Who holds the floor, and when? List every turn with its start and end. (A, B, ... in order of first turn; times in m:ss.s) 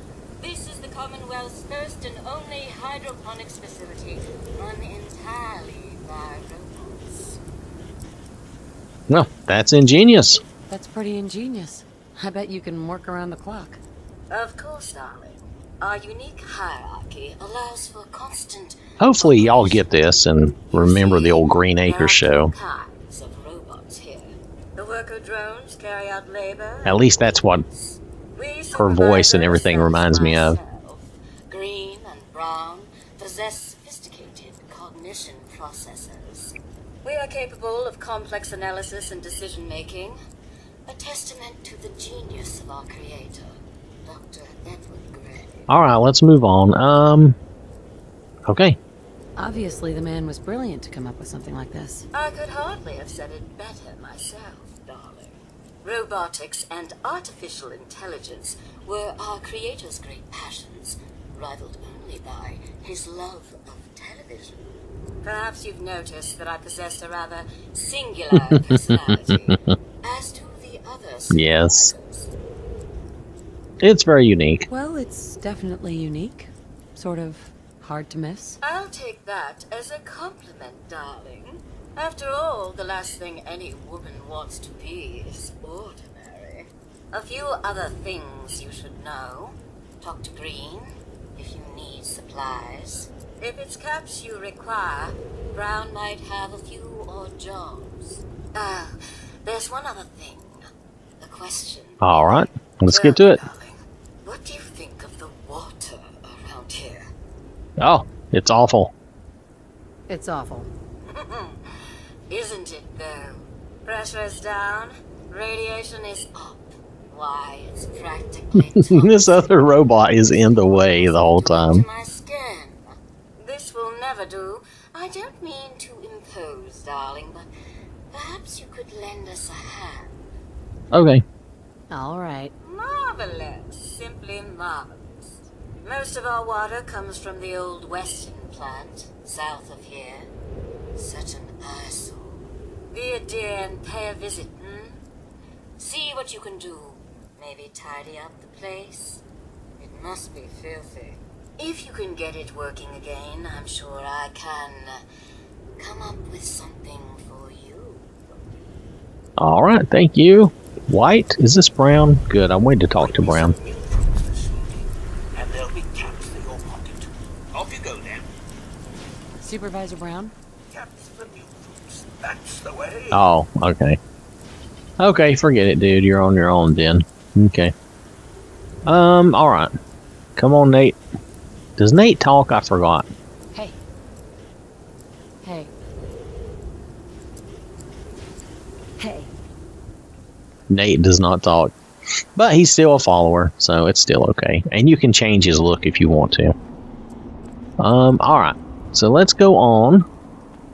0:00.4-0:07.4 A
0:09.1-0:10.4 B
0:10.7-0:13.8 C
0:14.3-0:40.2 A
0:19.0-0:22.5 B
0:26.8-0:27.6 B
0:28.7-0:30.6 B
0:40.8-0:45.7 A
0:45.7-0:47.4 B
0:48.5-0:48.8 B
0:49.4-0:52.0 C
0:52.1-1:04.7 A
1:05.2-1:12.3 A
1:08.3-1:09.8 B
1:11.3-1:11.9 B
1:13.8-1:14.7 B
1:14.7-1:18.6 C
1:18.6-1:38.9 A
1:39.4-1:40.6 A
1:41.2-1:47.1 A
1:42.0-1:43.4 B
1:47.8-1:48.9 B
1:50.1-1:50.7 C
1:51.1-1:51.8 A
1:52.3-2:07.5 A
1:58.5-2:01.8 B
2:08.1-2:10.2 A
2:10.9-2:11.2 B
2:11.9-2:12.5 C
2:12.6-2:20.3 A
2:21.0-2:25.0 A
2:25.8-2:29.2 A
2:29.8-2:35.0 A
2:35.8-2:38.1 A
2:39.4-2:43.6 B
2:43.0-2:44.8 D
2:45.3-2:48.2 D
2:49.4-2:50.3 C
2:50.7-2:53.1 D
2:53.1-2:54.0 B
2:55.0-2:57.7 B
2:58.8-2:59.7 B
3:00.4-3:01.0 B
3:01.8-3:03.1 B
3:05.4-3:05.7 C
3:09.0-3:09.3 C
3:10.7-3:11.7 B
3:12.4-3:16.5 B
3:17.8-3:20.0 B